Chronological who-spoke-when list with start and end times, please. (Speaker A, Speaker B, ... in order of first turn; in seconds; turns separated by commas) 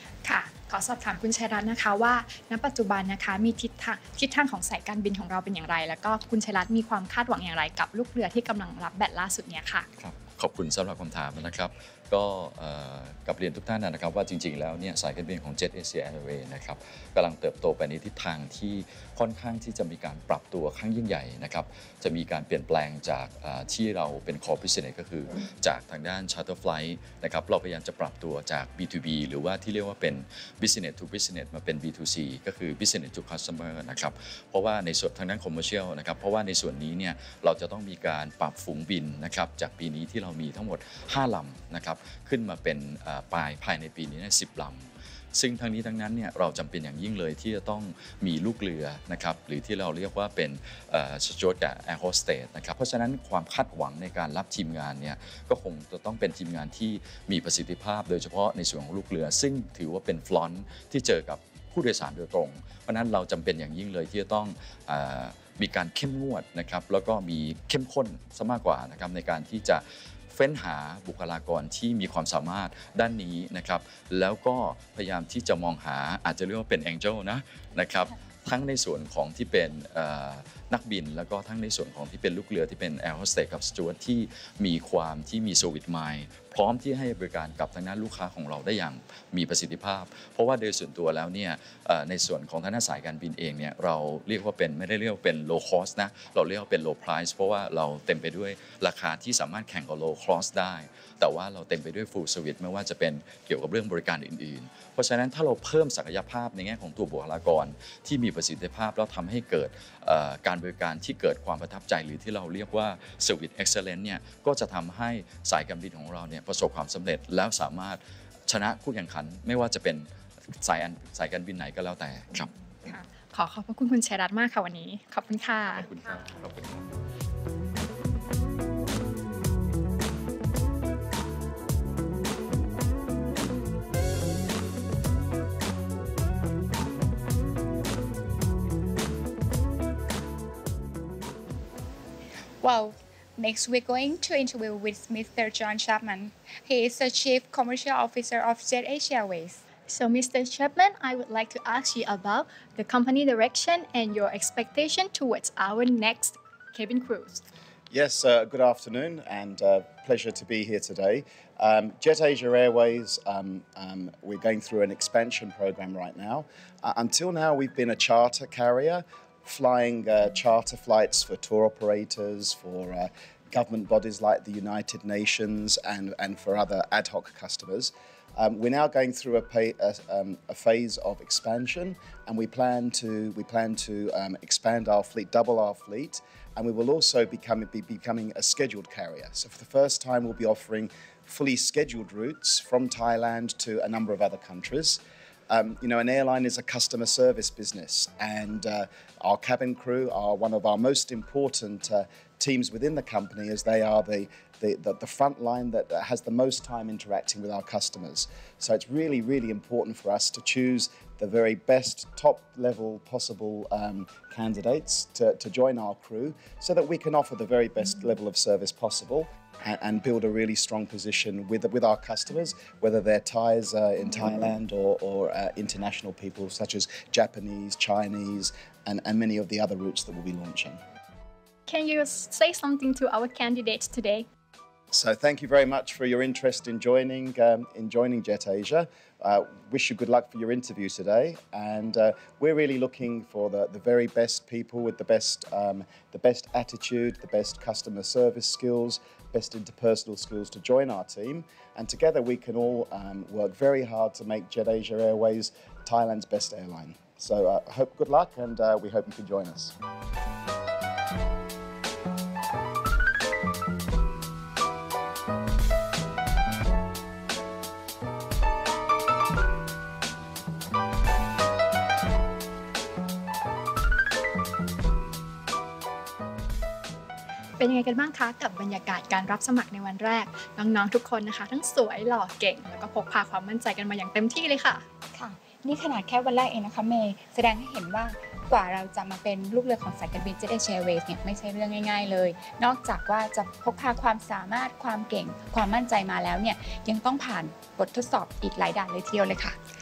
Speaker A: 0.2-9.9, Speaker B: 10.0-122.5, Speaker A: 122.4-125.9, Speaker B: 125.7-126.9, Speaker C: 142.6-149.6, Speaker A: 149.9-157.4, Speaker D: 157.9-230.8, Speaker A: 231.7-234.3, Speaker D: 234.9-259.7, Speaker A: 277.6-284.9, Speaker C: 285.1-299.6